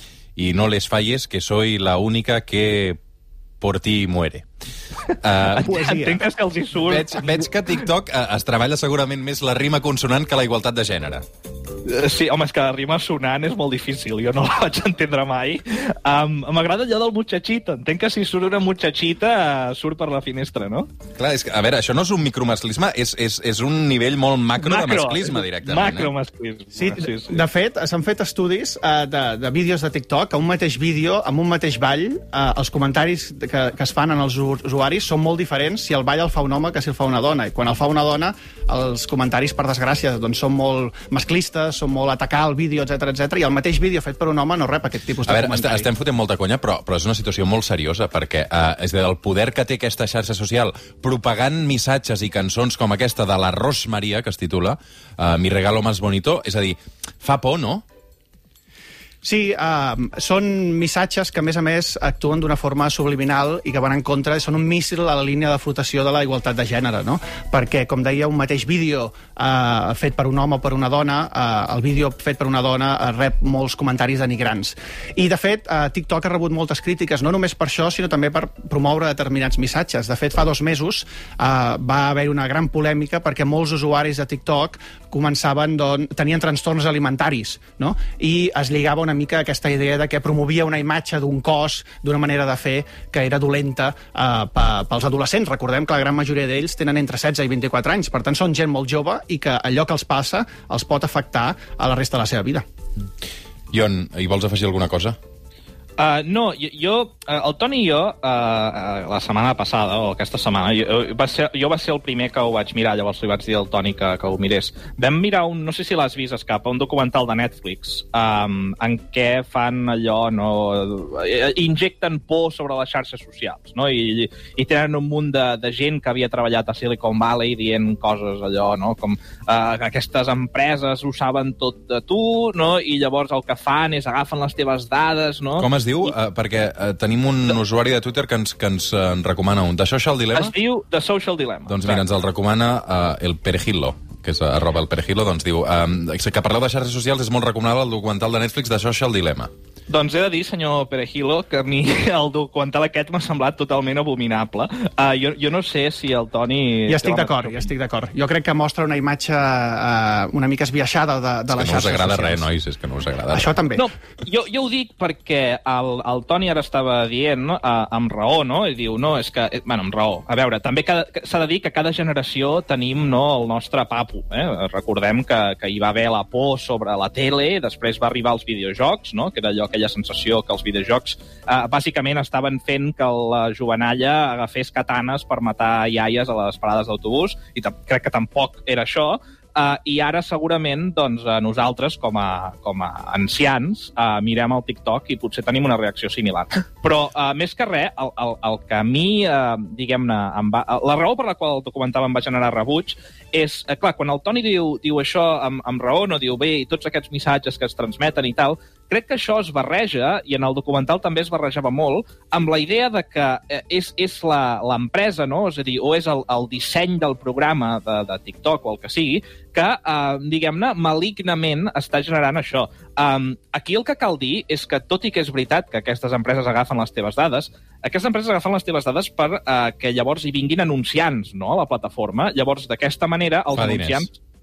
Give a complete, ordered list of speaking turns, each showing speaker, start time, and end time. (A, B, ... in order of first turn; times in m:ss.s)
0:00.4-0:03.0 A
0:03.6-0:04.5 A
0:05.2-0:05.6 A
0:05.5-0:07.5 B
0:05.6-0:06.2 C
0:06.8-0:11.2 A
0:11.8-0:20.9 B
0:21.2-0:26.1 A
0:24.6-0:27.4 B
0:26.8-0:45.9 C
0:45.3-0:57.8 A
0:59.2-1:42.6 C
1:43.7-1:45.2 A
1:46.0-2:16.1 B
2:15.6-2:20.5 A
2:20.3-2:22.0 B
2:21.7-2:29.5 A
2:29.9-2:37.7 B
2:36.9-2:42.5 C
2:41.6-2:43.5 A
2:43.3-2:43.9 C
2:43.7-3:54.1 B
3:53.5-3:54.1 A